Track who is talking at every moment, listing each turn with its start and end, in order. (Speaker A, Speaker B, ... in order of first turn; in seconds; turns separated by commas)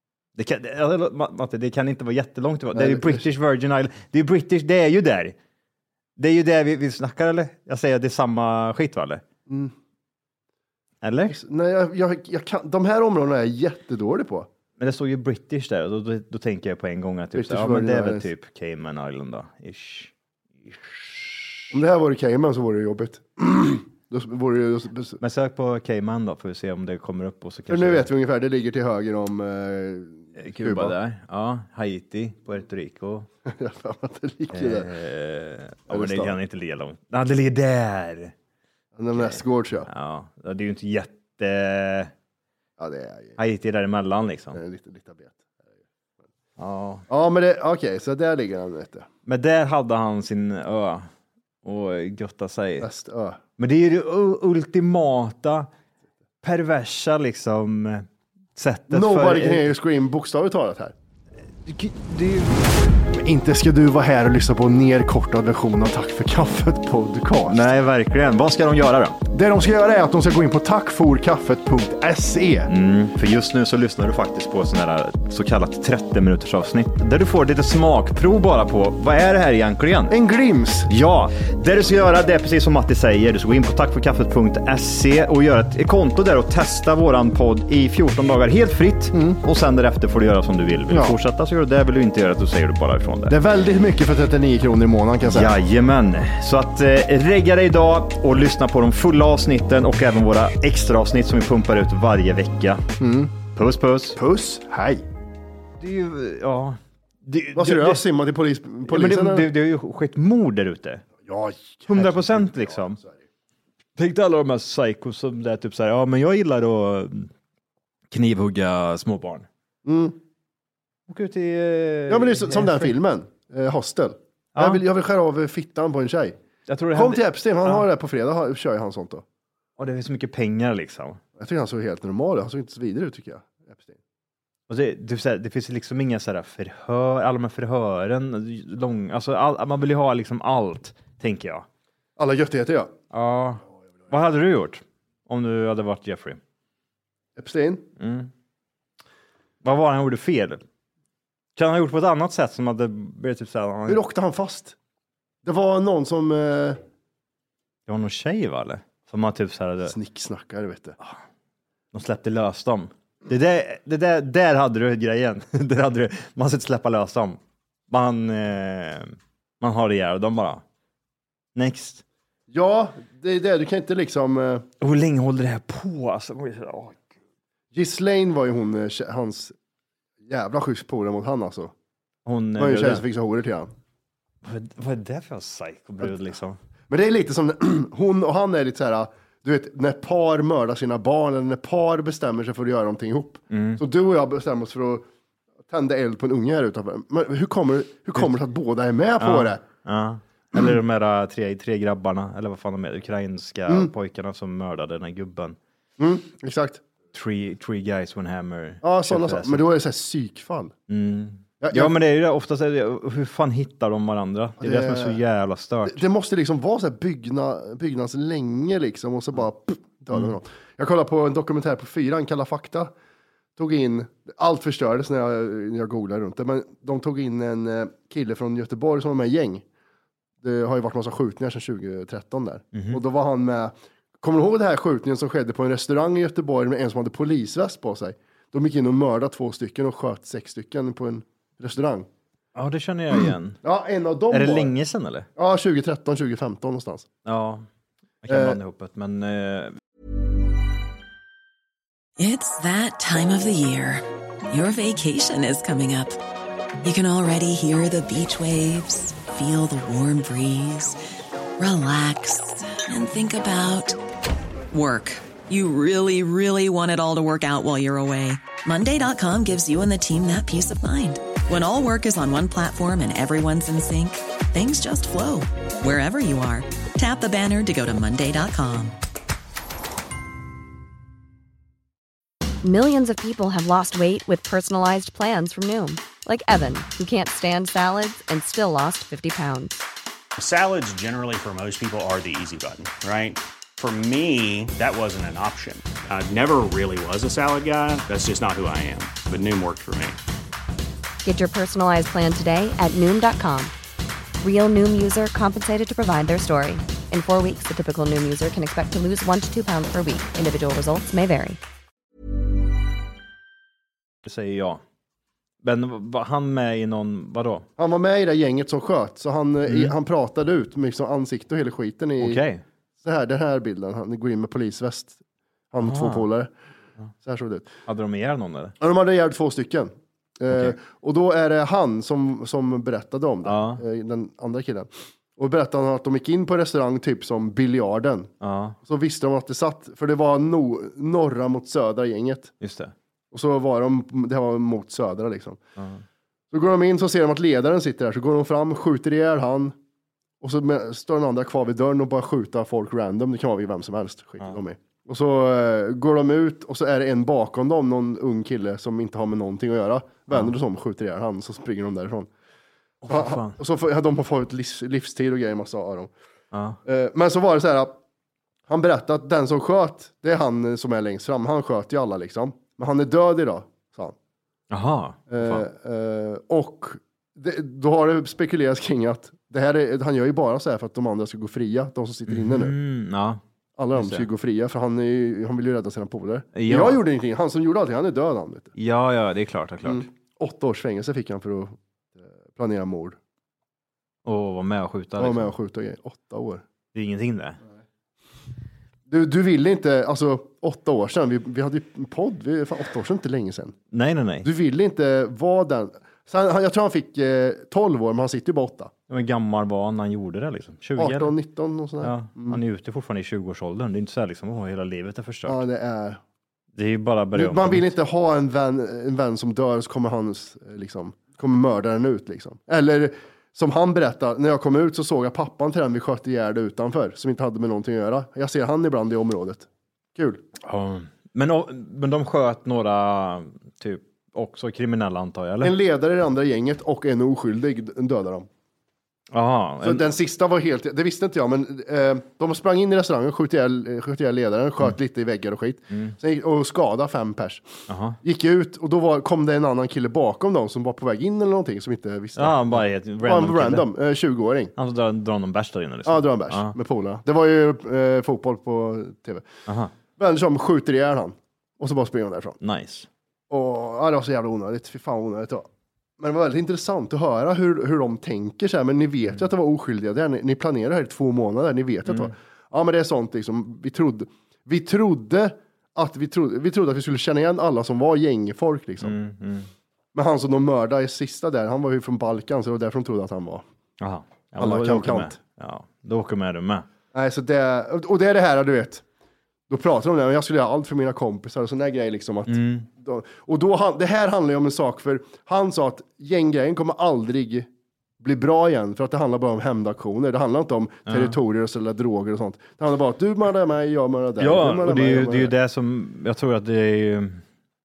Speaker A: 0.3-5.3, Speaker B: 2.7-3.2, Speaker A: 6.2-9.2, Speaker B: 9.5-9.7, Speaker A: 11.0-11.4, Speaker B: 11.3-14.5, Speaker A: 14.8-20.1, Speaker B: 17.3-18.2, Speaker A: 20.6-21.6, Speaker B: 21.7-25.2, Speaker A: 25.2-28.1, Speaker B: 27.7-30.9, Speaker A: 30.4-33.3, Speaker B: 33.5-34.9, Speaker A: 34.5-38.3, Speaker B: 35.9-36.4, Speaker B: 38.9-39.9, Speaker A: 39.1-42.1, Speaker B: 42.8-43.4, Speaker A: 43.4-44.6, Speaker B: 44.5-45.6, Speaker A: 46.6-47.0, Speaker B: 47.1-49.1, Speaker A: 49.2-51.1, Speaker A: 51.6-52.9, Speaker B: 52.8-53.4, Speaker A: 53.6-55.7, Speaker A: 56.4-59.7, Speaker B: 58.9-60.9, Speaker A: 61.6-62.7, Speaker B: 63.1-67.7, Speaker A: 67.5-69.2, Speaker B: 69.3-72.7, Speaker A: 72.7-80.2, Speaker B: 80.1-80.9, Speaker A: 80.9-93.4, Speaker B: 89.1-89.4, Speaker B: 90.9-91.2, Speaker B: 93.3-95.5, Speaker A: 95.3-102.8, Speaker B: 103.0-103.3, Speaker A: 103.5-104.2, Speaker B: 104.2-105.0, Speaker A: 105.8-108.0, Speaker B: 107.5-109.5, Speaker A: 108.8-111.0, Speaker B: 111.2-113.2, Speaker A: 111.9-113.0, Speaker A: 114.0-117.3, Speaker A: 118.1-119.5, Speaker B: 119.8-120.2, Speaker A: 121.1-122.9, Speaker B: 122.1-126.4, Speaker A: 124.5-124.8, Speaker A: 126.7-127.9, Speaker B: 126.9-129.2, Speaker A: 129.8-131.2, Speaker B: 131.4-134.0, Speaker A: 134.7-141.7, Speaker B: 142.2-142.9, Speaker A: 143.1-146.4, Speaker B: 147.3-147.8, Speaker A: 148.0-148.3, Speaker A: 149.6-150.6, Speaker A: 151.6-154.0, Speaker B: 153.9-154.7, Speaker B: 155.4-156.8, Speaker A: 157.9-159.9, Speaker B: 159.8-161.0, Speaker A: 161.9-170.6, Speaker A: 171.5-172.0, Speaker B: 172.5-174.7, Speaker A: 174.8-177.0, Speaker B: 177.7-179.5, Speaker B: 180.2-181.7, Speaker A: 182.2-183.0, Speaker B: 182.6-183.7, Speaker A: 184.4-186.6, Speaker B: 186.9-195.1, Speaker A: 193.5-193.8, Speaker B: 195.7-199.6, Speaker A: 199.2-205.6, Speaker B: 206.0-206.8, Speaker A: 207.1-209.6, Speaker B: 208.8-210.7, Speaker A: 210.9-216.0, Speaker B: 211.6-211.9, Speaker B: 214.6-215.2, Speaker B: 215.8-222.9, Speaker B: 223.6-229.6, Speaker B: 230.4-242.1, Speaker A: 232.7-233.0, Speaker A: 242.5-243.6, Speaker B: 243.6-244.7, Speaker A: 244.3-245.3, Speaker B: 245.4-247.1, Speaker A: 247.2-247.7, Speaker A: 248.2-249.8, Speaker B: 248.3-248.6, Speaker C: 252.2-256.2, Speaker C: 256.8-261.0, Speaker C: 261.6-264.0, Speaker C: 264.7-278.9, Speaker D: 282.6-289.8, Speaker E: 290.4-300.2, Speaker D: 301.2-303.7, Speaker D: 304.4-311.6, Speaker A: 314.2-314.8, Speaker A: 315.6-317.7, Speaker B: 317.8-322.4, Speaker A: 319.6-319.9, Speaker A: 322.2-322.6, Speaker B: 323.0-325.2, Speaker B: 325.7-326.5, Speaker A: 325.8-326.3, Speaker B: 327.2-327.7, Speaker A: 327.9-328.7, Speaker B: 328.8-338.3, Speaker A: 330.5-330.8, Speaker A: 333.4-333.8, Speaker A: 338.4-338.8, Speaker B: 338.8-342.5, Speaker A: 342.6-342.9, Speaker B: 343.3-345.6, Speaker A: 345.8-346.0, Speaker B: 346.5-349.7, Speaker B: 350.4-362.3, Speaker A: 363.0-363.6, Speaker B: 363.1-366.1, Speaker A: 366.5-366.8, Speaker B: 366.9-368.0, Speaker B: 368.7-374.1, Speaker A: 374.7-375.7, Speaker B: 375.3-382.7, Speaker A: 382.3-383.4, Speaker B: 383.8-388.7, Speaker A: 383.9-384.3, Speaker A: 386.5-387.0, Speaker A: 388.8-390.1, Speaker B: 389.8-393.2, Speaker A: 394.2-395.5, Speaker B: 395.2-396.6, Speaker A: 396.9-397.6, Speaker B: 399.1-403.8, Speaker A: 403.9-404.5, Speaker B: 404.4-408.9, Speaker A: 409.1-411.3, Speaker B: 411.0-412.6, Speaker A: 412.0-415.6, Speaker B: 415.4-416.2, Speaker A: 416.8-417.9, Speaker B: 417.3-430.4, Speaker A: 430.6-435.8, Speaker B: 435.6-438.5, Speaker A: 439.3-440.1, Speaker B: 439.8-447.6, Speaker A: 445.9-446.1, Speaker A: 447.9-448.2, Speaker B: 448.2-454.7, Speaker A: 452.4-453.9, Speaker A: 454.8-456.7, Speaker B: 456.1-459.5, Speaker A: 459.7-459.9, Speaker B: 460.2-462.6, Speaker A: 462.6-463.1, Speaker B: 463.5-465.7, Speaker B: 466.2-479.2, Speaker A: 472.1-472.3, Speaker A: 479.0-479.7, Speaker B: 480.1-483.6, Speaker A: 484.0-486.9, Speaker B: 484.6-485.4, Speaker B: 487.1-489.0, Speaker B: 489.7-497.7, Speaker A: 492.5-492.9, Speaker B: 498.2-505.5, Speaker A: 501.1-501.4, Speaker A: 504.4-507.4